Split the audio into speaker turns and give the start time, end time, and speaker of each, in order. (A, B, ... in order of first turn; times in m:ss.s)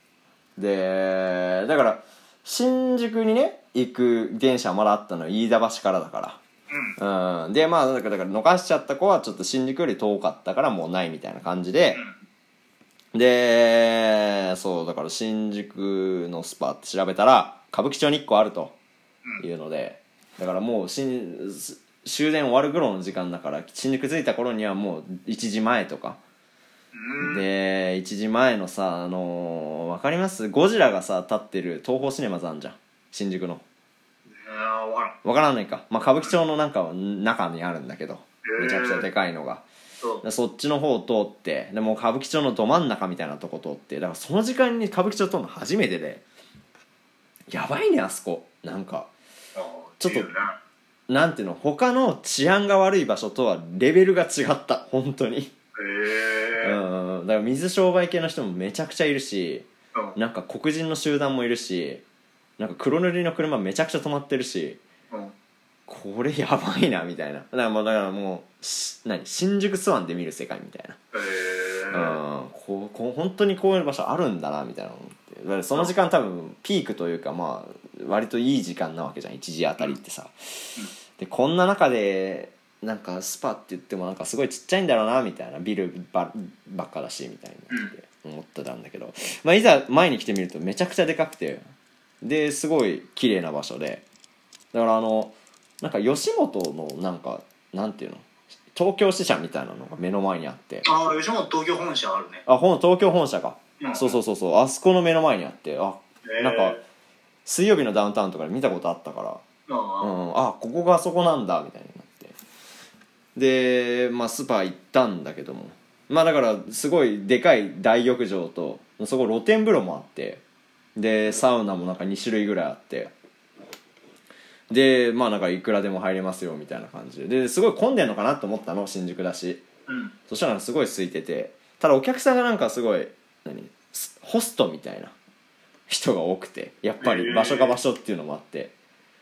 0:00.6-0:06.4 A
0:06.7-0:07.0 B
0:07.0-0:12.0 A
0:13.1-0:18.8 A
0:19.4-0:26.2 A
0:26.9-0:27.4 B
0:27.2-0:33.6 A
0:34.3-0:35.2 B
0:35.2-0:39.6 A
0:38.4-0:39.1 B
0:40.2-0:46.2 A
0:47.5-0:49.1 A
0:49.6-0:50.6 B
0:50.0-0:50.3 A
0:51.1-0:55.5 A
0:55.8-0:56.8 B
0:56.6-1:02.0 A
1:02.6-1:04.8 A
1:05.9-1:11.0 A
1:11.1-1:12.2 B
1:11.9-1:31.6 A
1:32.2-1:34.0 A
1:34.7-1:40.9 A
1:40.8-1:42.4 B
1:42.5-1:46.8 A
1:43.8-1:44.2 B
1:46.2-1:46.8 B
1:47.5-1:49.4 A
1:49.7-1:50.2 B
1:50.0-1:52.4 A
1:53.4-2:00.4 A
2:01.0-2:03.1 A
2:04.7-2:09.6 A
2:09.9-2:10.1 B
2:10.3-2:15.1 A
2:15.9-2:18.7 A
2:17.0-2:17.8 B